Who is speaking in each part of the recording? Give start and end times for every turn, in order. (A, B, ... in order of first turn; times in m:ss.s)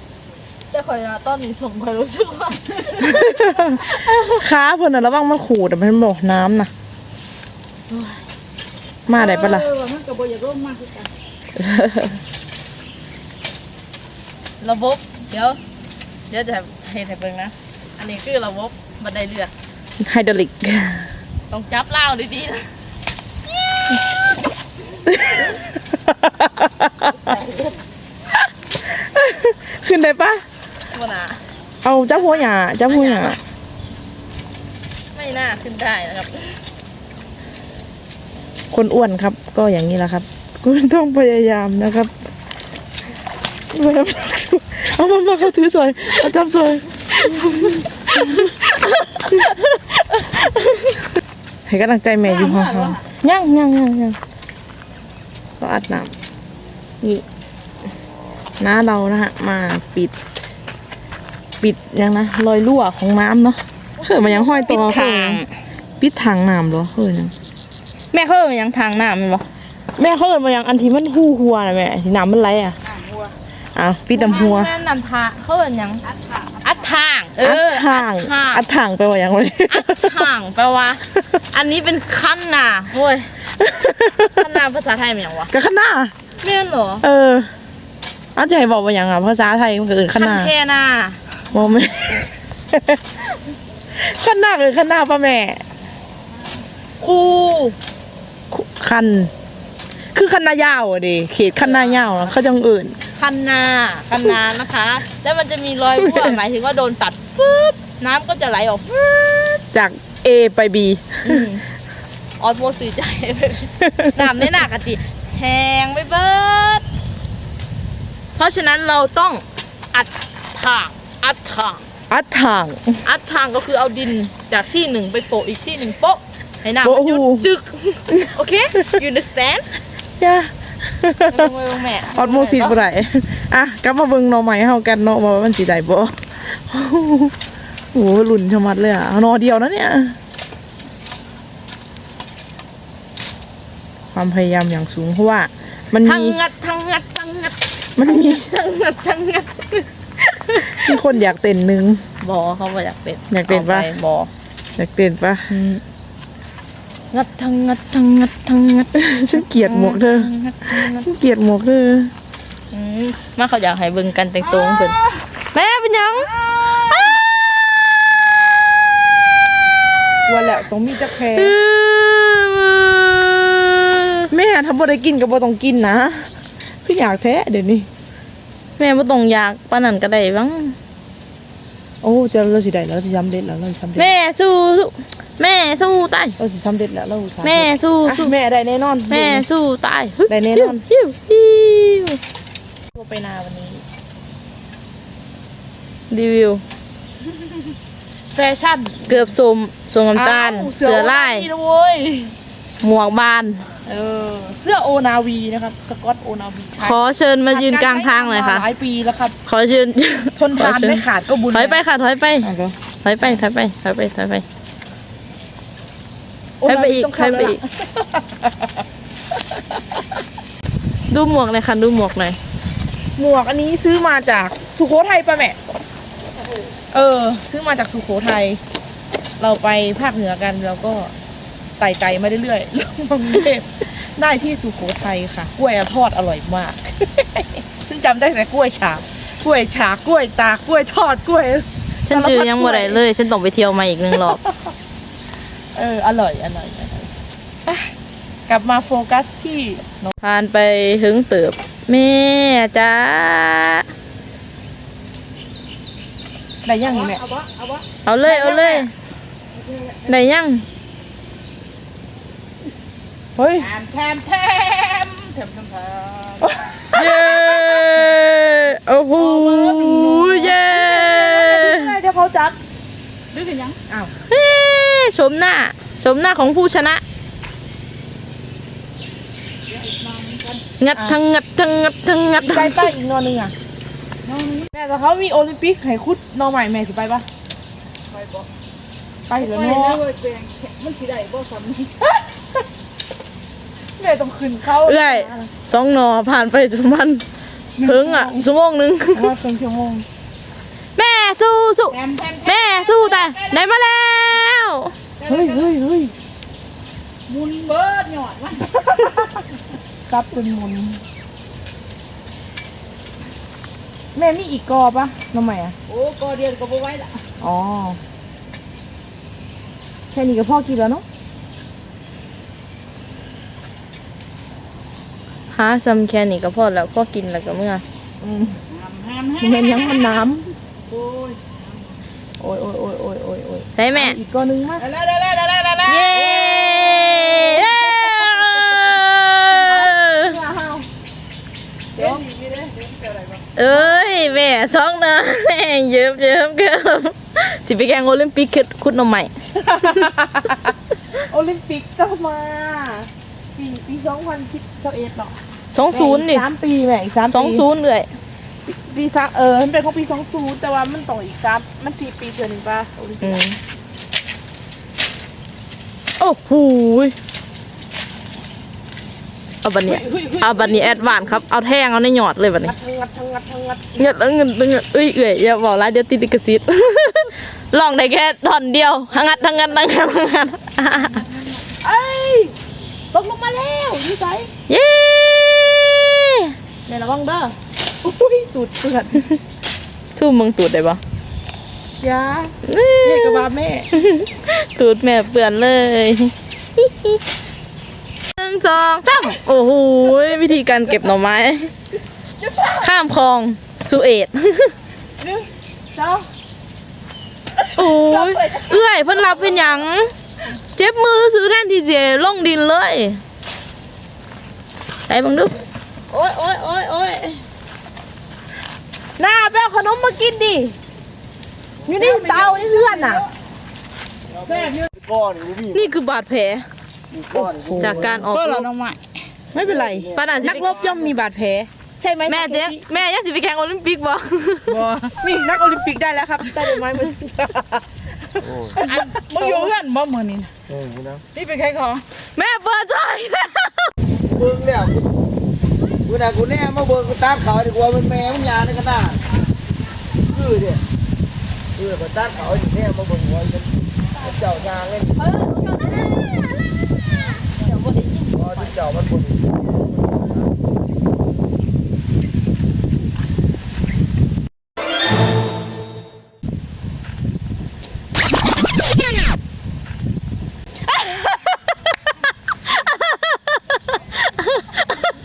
0:00.7-0:04.5 A
0:03.0-0:06.7 B
0:07.9-0:08.2 A
0:09.1-0:09.7 B
0:09.1-0:11.0 C
0:09.5-0:10.2 D
0:11.6-0:12.1 B
0:14.6-0:15.6 A
0:16.3-0:19.5 A
0:20.0-0:21.1 B
0:21.5-0:22.7 A
0:25.0-0:27.4 B
0:27.3-0:27.8 A
0:28.8-0:30.4 B
0:30.9-0:31.4 A
0:31.8-0:33.4 B
0:32.1-0:33.4 A
0:35.1-0:36.6 A
0:38.7-0:42.3 B
0:43.7-0:48.6 B
0:48.2-0:48.5 A
0:49.2-0:49.5 A
0:49.2-0:49.6 B
0:51.7-0:54.2 B
0:52.2-0:53.0 C
0:55.6-0:56.1 B
0:58.6-1:00.1 B
1:01.6-1:05.4 B
1:04.0-1:04.6 C
1:04.7-1:05.5 A
1:06.0-1:07.3 B
1:08.1-1:09.5 A
1:10.0-1:12.8 B
1:13.0-1:13.3 C
1:13.8-1:14.7 B
1:14.1-1:16.0 A
1:16.6-1:18.7 A
1:17.4-1:20.3 B
1:19.7-1:23.3 A
1:23.6-1:24.3 B
1:24.2-1:25.5 A
1:25.5-1:26.1 B
1:26.4-1:27.0 A
1:27.0-1:27.5 B
1:28.4-1:30.5 B
1:30.2-1:31.2 A
1:31.5-1:33.0 B
1:33.9-1:35.6 B
1:37.0-1:37.8 A
1:38.5-1:39.3 B
1:40.1-1:43.0 B
1:41.6-1:42.4 A
1:43.2-1:49.6 A
1:46.0-1:46.4 B
1:49.7-1:51.5 B
1:51.2-1:51.6 A
1:52.4-1:56.8 A
1:53.9-1:54.2 B
1:58.4-2:01.8 A
2:02.1-2:03.0 B
2:03.0-2:09.8 A
2:06.8-2:07.5 B
2:10.2-2:11.5 B
2:11.3-2:12.8 A
2:12.1-2:17.3 B
2:17.9-2:20.2 B
2:24.1-2:26.4 B
2:26.1-2:31.0 A
2:28.0-2:28.5 B
2:30.6-2:32.0 B
2:32.2-2:34.3 A
2:33.3-2:33.9 B
2:34.8-2:35.5 B
2:35.5-2:35.8 A
2:37.1-2:41.1 A
2:39.0-2:40.3 B
2:40.8-2:42.1 B
2:42.7-2:45.0 A
2:44.5-2:45.2 B
2:45.5-2:46.3 A
2:46.3-2:47.1 B
2:50.3-2:51.6 B
2:51.4-2:54.3 A
2:54.3-2:56.3 B
2:56.8-2:57.9 B
2:58.8-3:00.8 A
3:02.0-3:04.1 B
3:04.0-3:06.4 A
3:06.4-3:09.4 B
3:07.4-3:08.3 A
3:09.1-3:12.2 A
3:10.3-3:10.8 B
3:13.0-3:13.8 B
3:16.1-3:16.6 A
3:18.3-3:19.4 B
3:19.1-3:21.5 A
3:20.1-3:22.4 B
3:22.8-3:23.6 A
3:23.9-3:27.0 B
3:26.8-3:28.6 A
3:27.5-3:29.4 B
3:29.5-3:32.5 A
3:30.4-3:31.8 B
3:32.4-3:32.8 B
3:33.0-3:34.4 A
3:36.6-3:38.5 B
3:36.6-3:37.6 A
3:41.1-3:42.4 A
3:43.2-3:45.6 B
3:46.9-3:48.6 B
3:49.4-3:51.1 B
3:51.8-4:03.0 B
4:02.1-4:04.4 A
4:04.1-4:04.7 B
4:05.8-4:07.1 B
4:08.5-4:10.2 B
4:10.2-4:13.9 A
4:16.6-4:17.2 B
4:16.8-4:17.8 C
4:18.0-4:18.9 A
4:18.2-4:18.9 B
4:19.6-4:20.0 C
4:20.1-4:20.7 A
4:23.4-4:23.8 B
4:23.6-4:26.9 C
4:26.4-4:28.1 B
4:26.9-4:31.9 A
4:29.1-4:32.6 B
4:33.4-4:33.8 C
4:33.8-4:34.1 B
4:34.3-4:37.0 A
4:39.7-4:40.6 C
4:40.8-4:42.9 A
4:40.9-4:41.2 B
4:42.4-4:43.5 B
4:44.4-4:44.6 C
4:44.7-4:47.3 B
4:49.3-4:50.1 B
4:49.4-4:51.8 C
4:54.0-4:55.5 B
4:54.8-4:57.2 A
4:57.8-4:58.5 B
4:57.8-4:59.3 A
4:59.1-5:00.1 B
5:01.0-5:04.9 A
5:01.9-5:03.6 C
5:05.2-5:05.7 C
5:05.2-5:06.1 B
5:07.3-5:08.7 C
5:08.8-5:09.3 B
5:10.1-5:11.0 B
5:14.2-5:15.8 B
5:15.9-5:17.2 C
5:17.4-5:18.0 B
5:20.1-5:21.0 B
5:25.5-5:27.8 A
5:28.2-5:28.7 B
5:28.7-5:30.1 C
5:29.4-5:30.5 B
5:30.9-5:31.4 C
5:32.4-5:34.9 B
5:33.7-5:34.2 A
5:34.8-5:37.4 C
5:35.8-5:40.4 A
5:37.3-5:39.0 B
5:39.6-5:40.9 B
5:42.0-5:42.3 B
5:42.0-5:43.4 C
5:43.6-5:44.4 B
5:43.6-5:50.1 A
5:49.5-5:55.4 B
5:55.7-5:56.5 A
5:55.9-5:57.6 B
5:57.3-5:58.1 A
5:58.7-6:03.4 B
6:03.2-6:03.6 A
6:06.2-6:07.2 A
6:09.6-6:12.7 A
6:09.8-6:11.5 B
6:12.6-6:14.0 B
6:14.0-6:21.2 A
6:19.1-6:20.0 B
6:21.1-6:22.6 B
6:23.1-6:24.5 B
6:24.7-6:26.5 A
6:26.9-6:27.4 B
6:28.0-6:29.4 B
6:30.1-6:31.0 A
6:32.0-6:33.9 B
6:32.6-6:37.2 A
6:38.3-6:41.7 A
6:42.4-6:42.9 B
6:42.8-6:44.8 A
6:45.9-6:46.3 B
6:47.6-6:49.8 B
6:47.8-6:50.1 A
6:50.8-6:53.2 A
6:55.1-6:55.6 A
6:56.1-6:57.3 B
6:59.2-7:00.8 B
7:01.8-7:03.3 B
7:02.0-7:03.2 C
7:04.4-7:05.6 D
7:04.5-7:04.9 C
7:05.6-7:06.7 A
7:07.2-7:08.3 D
7:07.3-7:08.5 B
7:07.8-7:08.7 A
7:07.9-7:09.0 C
7:09.5-7:12.8 B
7:09.9-7:10.3 D
7:10.0-7:10.8 A
7:12.3-7:14.8 A
7:14.7-7:15.2 C
7:15.1-7:17.8 B
7:18.4-7:19.8 B
7:18.8-7:20.5 C
7:20.7-7:21.2 D
7:21.3-7:22.0 C
7:22.2-7:23.9 A
7:24.3-7:25.0 D
7:26.1-7:29.2 D
7:30.3-7:30.8 D
7:31.8-7:33.7 D
7:34.3-7:35.1 D
7:35.2-7:36.7 A
7:37.3-7:38.9 A
7:38.5-7:39.4 D
7:50.9-7:51.7 A
7:52.7-7:55.0 A